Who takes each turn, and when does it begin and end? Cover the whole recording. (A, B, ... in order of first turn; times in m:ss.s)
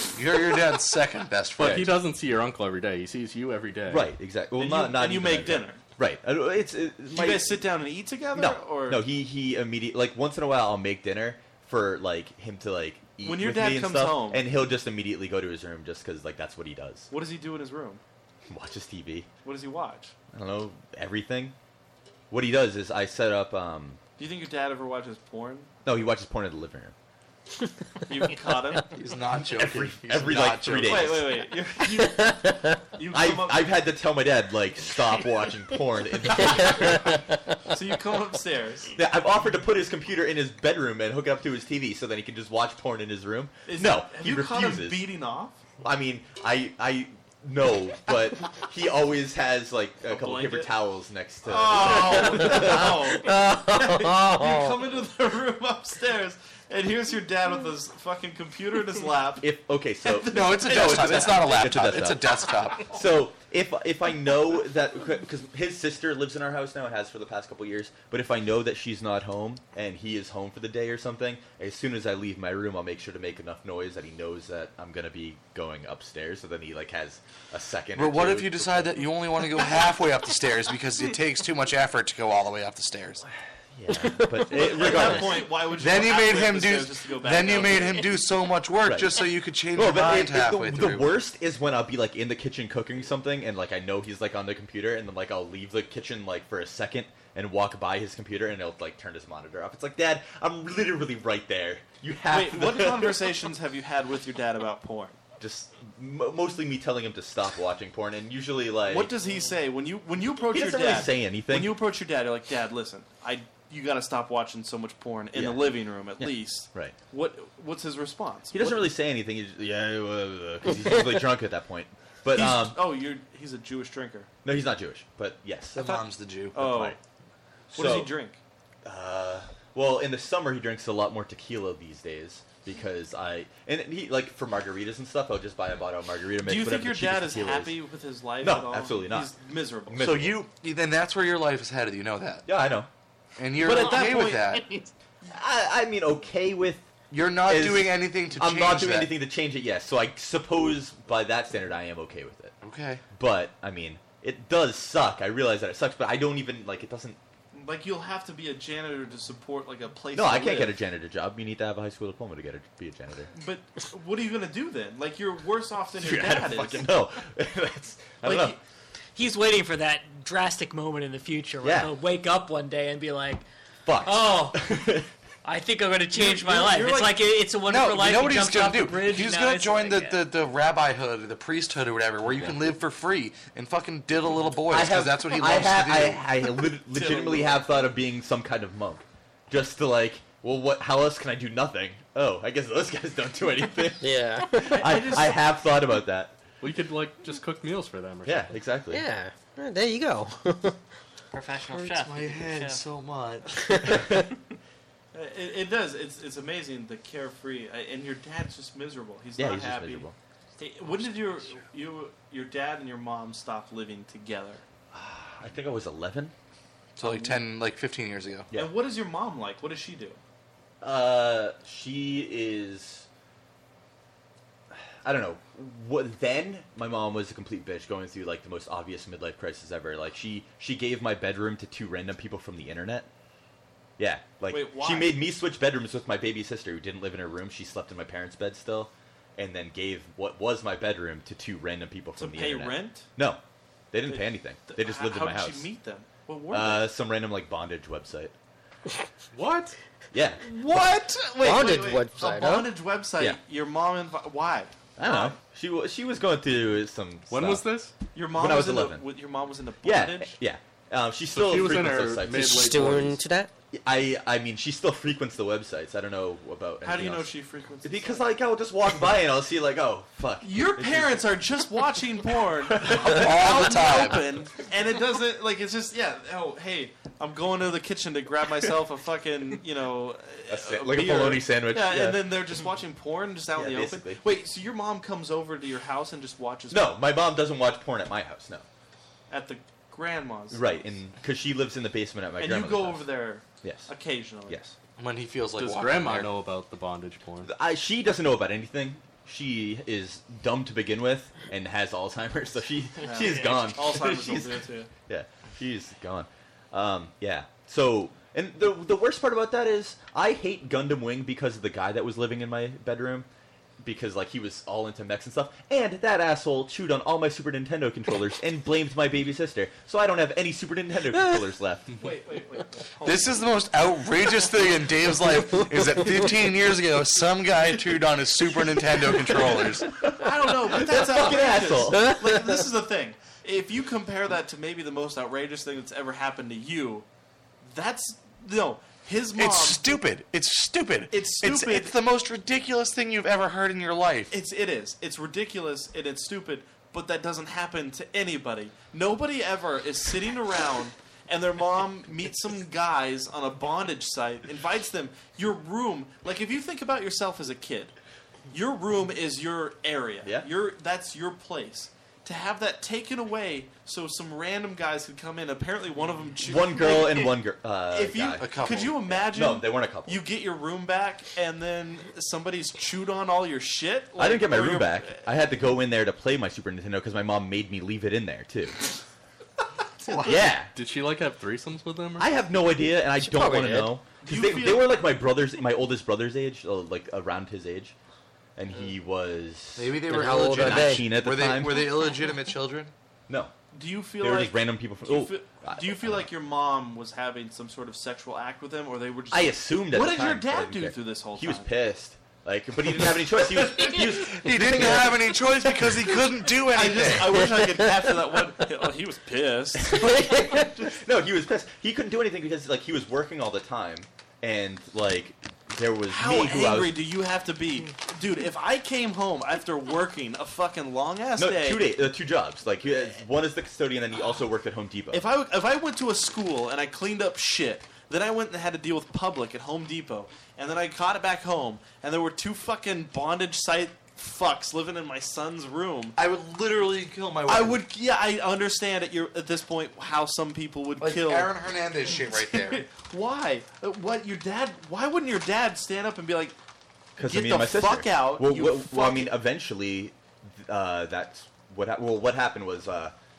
0:00.2-0:01.9 A
0:01.6-0:04.1 B
0:01.6-0:01.9 C
0:03.9-0:07.6 C
0:04.6-0:05.8 D
0:07.1-0:09.0 D
0:08.4-0:17.1 C
0:13.2-0:14.4 D
0:17.1-0:18.0 D
0:18.5-0:19.3 C
0:19.4-0:20.1 D
0:20.3-0:21.6 C
0:22.3-0:24.0 C
0:24.2-0:25.7 D
0:25.8-0:27.0 C
0:28.1-0:29.0 D
0:29.0-0:31.2 A
0:29.5-0:31.4 C
0:30.8-0:33.7 D
0:33.1-0:37.0 C
0:37.7-0:39.0 D
0:39.0-0:45.0 C
0:43.7-0:45.6 D
0:45.8-0:53.1 C
0:50.1-0:50.8 D
0:51.4-0:59.5 D
0:52.3-0:54.8 E
0:59.4-1:19.1 C
1:00.0-1:01.6 D
1:00.3-1:02.9 A
1:18.0-1:23.2 A
1:23.7-1:25.5 C
1:24.4-1:28.2 D
1:25.8-1:31.1 A
1:28.8-1:43.3 C
1:42.3-1:45.2 D
1:45.4-1:49.1 C
1:48.9-1:58.9 D
1:50.5-1:51.8 C
1:55.3-1:57.0 C
1:58.5-2:02.8 C
2:02.3-2:04.3 D
2:04.4-2:06.0 C
2:05.8-2:06.7 A
2:06.6-2:07.0 D
2:06.6-2:07.0 C
2:07.7-2:08.4 D
2:07.7-2:08.1 C
2:08.8-2:17.8 C
2:16.4-2:20.0 D
2:18.4-2:19.3 C
2:19.9-2:20.4 C
2:20.0-2:22.5 A
2:22.5-2:22.9 C
2:23.4-2:24.7 A
2:23.6-2:24.6 D
2:24.5-2:24.9 F
2:25.3-2:32.6 C
2:27.1-2:29.1 A
2:32.6-2:33.0 A
2:33.1-2:37.2 C
2:37.5-2:40.8 D
2:40.1-2:43.3 C
2:43.3-2:46.9 D
2:46.0-2:48.6 C
2:48.2-2:48.6 D
2:49.2-2:53.4 F
2:51.6-2:51.9 C
2:53.8-2:55.1 C
2:54.0-2:54.7 F
2:55.4-3:00.3 F
2:56.1-2:57.3 D
2:57.6-3:06.3 A
3:02.2-3:02.6 C
3:04.7-3:16.4 C
3:06.9-3:07.7 D
3:14.0-3:15.1 E
3:14.7-3:15.4 D
3:16.6-3:18.6 B
3:18.2-3:19.0 C
3:18.9-3:20.8 E
3:21.3-3:22.8 F
3:21.7-3:23.6 A
3:25.1-3:30.1 D
3:29.4-3:30.2 C
3:30.6-3:34.6 D
3:34.9-3:36.3 C
3:37.0-3:38.5 A
3:37.0-3:37.4 D
3:38.5-3:40.2 D
3:40.8-3:43.1 C
3:44.7-3:53.1 C
3:54.0-4:03.4 C
3:54.5-3:55.2 D
4:02.2-4:03.1 D
4:03.9-4:05.7 C
4:04.1-4:06.9 D
4:06.5-4:08.3 C
4:09.3-4:09.8 B
4:10.1-4:10.5 C
4:10.5-4:15.4 D
4:11.4-4:12.8 E
4:15.0-4:17.7 C
4:17.3-4:18.0 B
4:18.1-4:20.4 D
4:18.3-4:19.0 C
4:19.8-4:23.1 C
4:21.3-4:23.2 B
4:22.3-4:23.5 E
4:23.7-4:27.3 C
4:26.8-4:28.2 D
4:27.8-4:31.4 C
4:30.4-4:46.9 D
4:32.6-4:33.3 C
4:32.8-4:34.3 A
4:40.5-4:42.4 C
4:43.6-4:44.2 C
4:46.7-4:48.6 C
4:49.3-4:50.8 D
4:50.5-4:53.1 C
4:52.4-4:54.8 D
4:53.6-4:53.9 C
4:55.0-4:56.3 A
4:55.6-4:57.5 B
4:57.4-5:13.3 C
5:03.0-5:04.9 D
5:13.8-5:21.9 C
5:21.9-5:23.5 D
5:23.0-5:30.0 A
5:30.1-5:37.1 D
5:30.2-5:32.2 C
5:37.6-5:40.0 D
5:39.4-5:44.4 A
5:41.1-5:42.0 D
5:44.3-5:58.0 D
5:58.5-6:15.3 D
6:00.2-6:00.5 C
6:06.4-6:10.2 C
6:08.4-6:09.2 A
6:14.2-6:18.8 C
6:20.3-6:20.7 C
6:20.3-6:22.3 B
6:22.2-6:28.0 C
6:23.1-6:24.0 E
6:24.2-6:25.0 D
6:28.6-6:32.0 C
6:29.8-6:32.9 A
6:30.0-6:31.2 E
6:33.3-6:33.5 C
6:33.7-6:41.7 D
6:34.2-6:36.3 C
6:39.3-6:45.2 C
6:42.9-6:44.1 D
6:43.9-6:47.4 A
6:46.7-6:50.0 D
6:49.8-6:57.0 C
6:50.0-6:50.7 E
6:56.1-7:01.9 D
7:01.4-7:05.2 C
7:05.1-7:16.2 D
7:16.2-7:17.8 A
7:17.5-7:21.5 D
7:21.0-7:22.9 A
7:22.0-7:26.6 D
7:27.2-7:29.3 D
7:27.2-7:33.2 C